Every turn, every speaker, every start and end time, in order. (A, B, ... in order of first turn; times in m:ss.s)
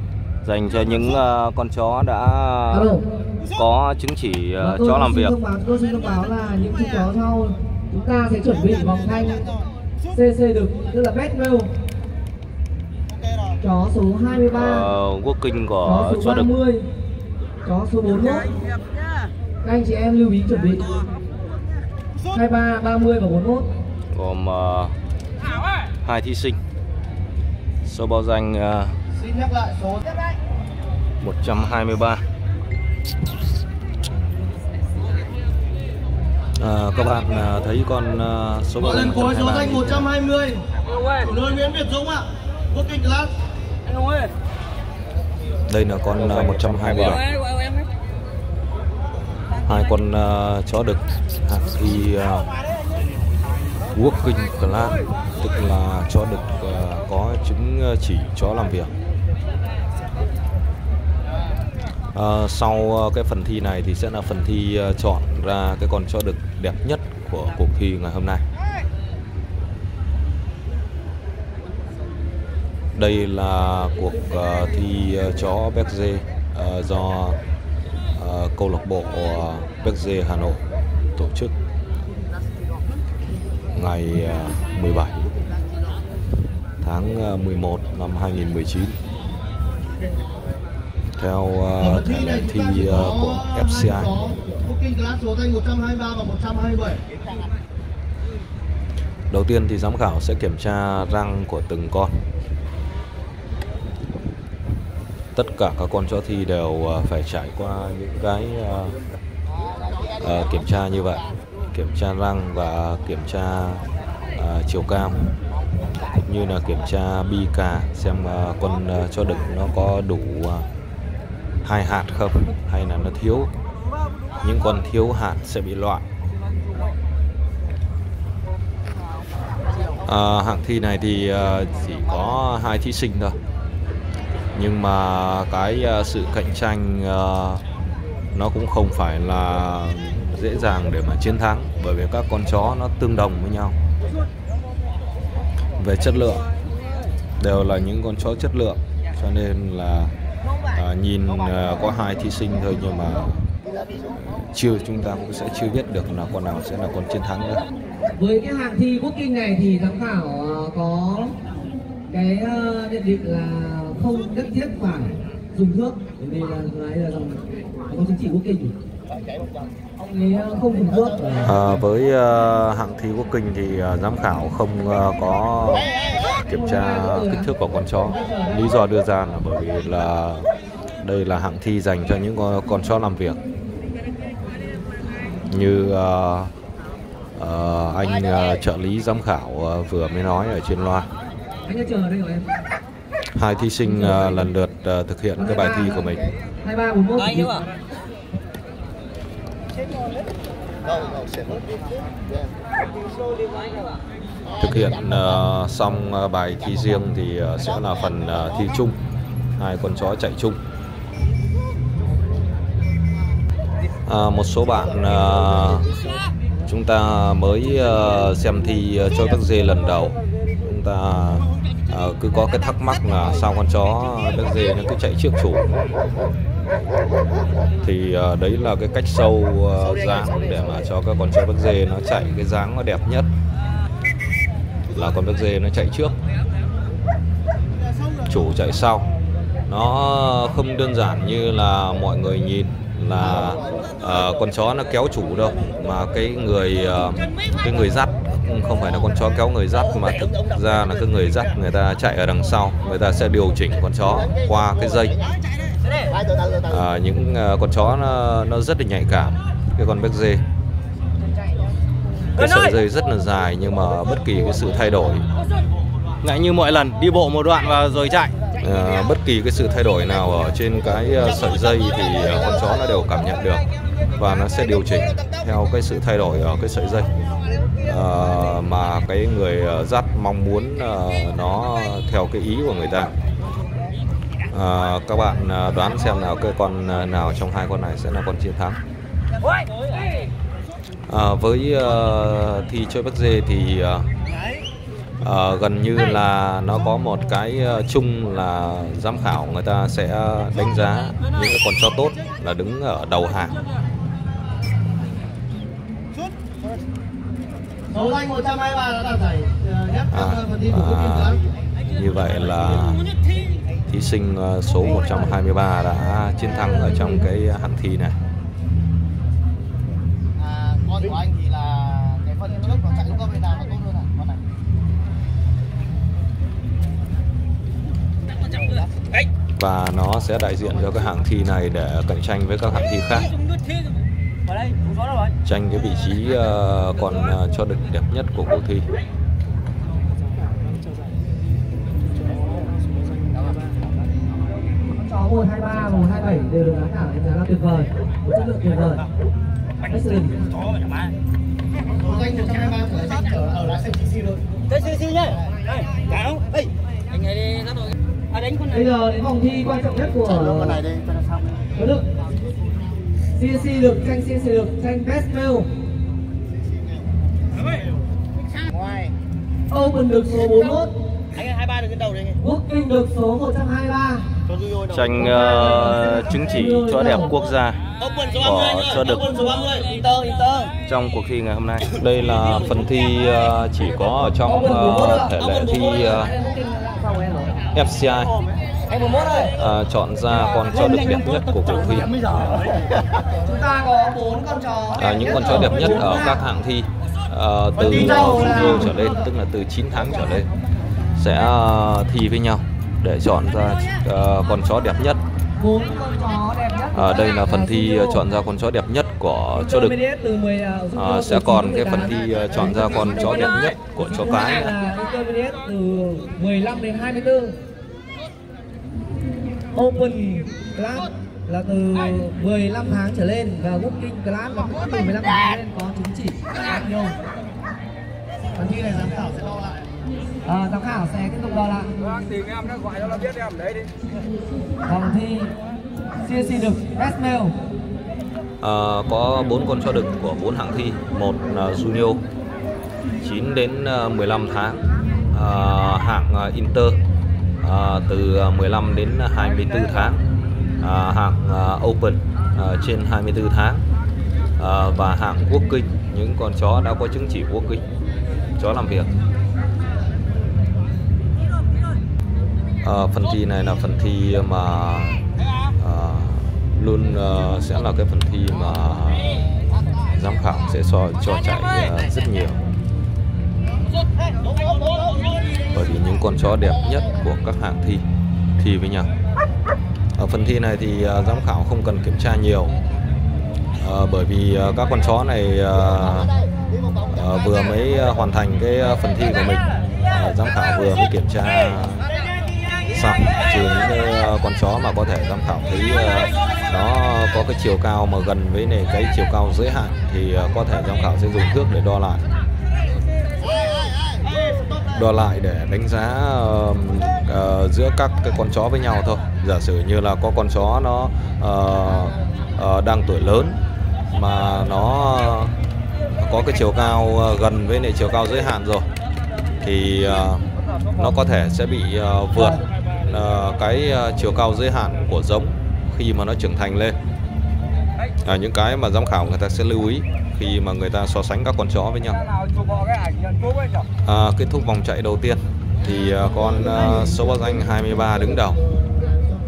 0:00.4-0:02.9 A
0:02.7-0:03.0 B
0:03.4-0:05.4 A
0:04.6-0:09.6 B
0:10.1-0:11.7 B
0:13.6-0:14.9 B
0:14.5-0:16.5 A
0:15.8-0:16.9 B
0:17.6-0:18.5 B
0:19.6-0:21.0 B
0:22.3-0:23.7 B
0:24.1-0:25.0 A
0:26.0-0:26.6 A
0:27.8-0:29.0 A
0:29.3-0:29.9 C
0:31.2-0:32.2 A
0:36.6-0:40.2 A
0:40.2-0:40.6 C
0:41.2-0:43.3 C
0:45.7-0:47.3 A
0:49.6-0:52.5 A
0:53.9-0:58.9 A
1:02.1-1:08.4 A
1:13.0-1:17.4 A
1:18.2-1:20.6 A
1:21.2-1:21.5 A
1:23.7-1:25.3 A
1:26.8-1:29.0 A
1:31.2-1:34.4 A
1:34.6-1:37.0 C
1:39.3-1:42.1 A
1:45.3-1:49.0 A
1:50.2-1:55.3 A
1:56.0-2:00.7 A
2:01.6-2:03.5 A
2:04.4-2:06.0 A
2:10.0-2:13.4 A
2:14.5-2:17.6 A
2:18.3-2:23.8 A
2:25.8-2:26.5 A
2:27.4-2:33.4 A
2:34.5-2:37.6 A
2:38.2-2:41.3 B
2:42.1-2:48.8 B
2:50.0-2:51.6 B
2:51.4-3:00.5 A
2:56.5-2:57.5 B
2:58.0-2:58.6 B
3:01.0-3:03.4 A
3:05.5-3:06.5 A
3:07.4-3:11.1 A
3:11.7-3:12.5 B
3:13.3-3:16.3 A
3:15.4-3:16.1 B
3:16.6-3:17.7 B
3:24.5-3:29.0 A
3:29.6-3:30.6 A
3:34.1-3:35.9 A
3:36.7-3:45.8 A
3:47.8-3:53.3 A
3:54.9-3:56.2 A
3:58.2-3:59.1 A
3:59.7-4:15.2 A
4:16.6-4:20.4 A
4:22.3-4:25.3 A
4:26.2-4:37.1 A
4:37.8-4:43.1 A
4:44.5-4:48.8 A
4:51.1-4:54.1 A
4:55.2-5:03.6 A
5:08.0-5:10.0 C
5:10.1-5:11.4 A
5:11.9-5:13.0 A
5:13.9-5:18.2 A
5:16.5-5:17.2 B
5:21.5-5:24.0 C
5:29.6-5:33.3 A
5:34.6-5:35.1 D
5:35.4-5:38.9 A
5:45.0-5:49.0 B
5:49.8-5:50.5 B
5:52.1-5:54.2 C
5:54.7-5:55.4 D
5:56.1-5:56.4 D
5:57.1-5:57.8 D
5:58.6-6:00.9 B
6:01.8-6:02.0 B
6:03.3-6:05.7 B
6:09.7-6:10.9 B
6:12.4-6:14.3 B
6:14.9-6:19.5 A
6:15.2-6:17.3 B
6:20.1-6:20.7 B
6:20.8-6:26.3 A
6:24.4-6:27.6 B
6:27.7-6:28.4 A
6:28.9-6:29.5 B
6:29.4-6:32.2 A
6:32.3-6:32.6 D
6:33.3-6:36.4 B
6:35.0-6:40.5 A
6:37.9-6:39.1 B
6:41.2-6:45.2 A
6:45.6-6:48.2 B
6:46.9-6:50.0 A
6:49.5-6:57.5 B
6:50.9-6:54.7 A
6:59.7-7:07.2 B
7:08.6-7:09.3 B
7:10.4-7:11.9 B
7:12.4-7:13.6 D
7:14.8-7:15.5 B
7:16.2-7:17.5 B
7:18.6-7:22.2 A
7:23.2-7:24.8 A
7:25.3-7:27.0 A
7:27.6-7:30.2 A
7:30.8-7:33.8 A
7:34.6-7:37.8 A
7:38.6-7:39.1 A
7:42.8-7:45.2 A
7:45.8-7:49.4 A
7:50.0-7:52.6 A
7:55.7-7:58.0 A
7:58.6-7:59.1 A
8:00.2-8:02.8 A
8:03.8-8:06.4 A
8:07.0-8:12.1 A
8:12.9-8:22.2 A
8:24.8-8:33.6 A
8:34.1-8:35.5 A
8:36.2-8:38.9 A
8:39.6-8:47.0 A
8:48.2-8:52.3 A
8:52.4-8:53.8 D
8:54.0-8:58.6 A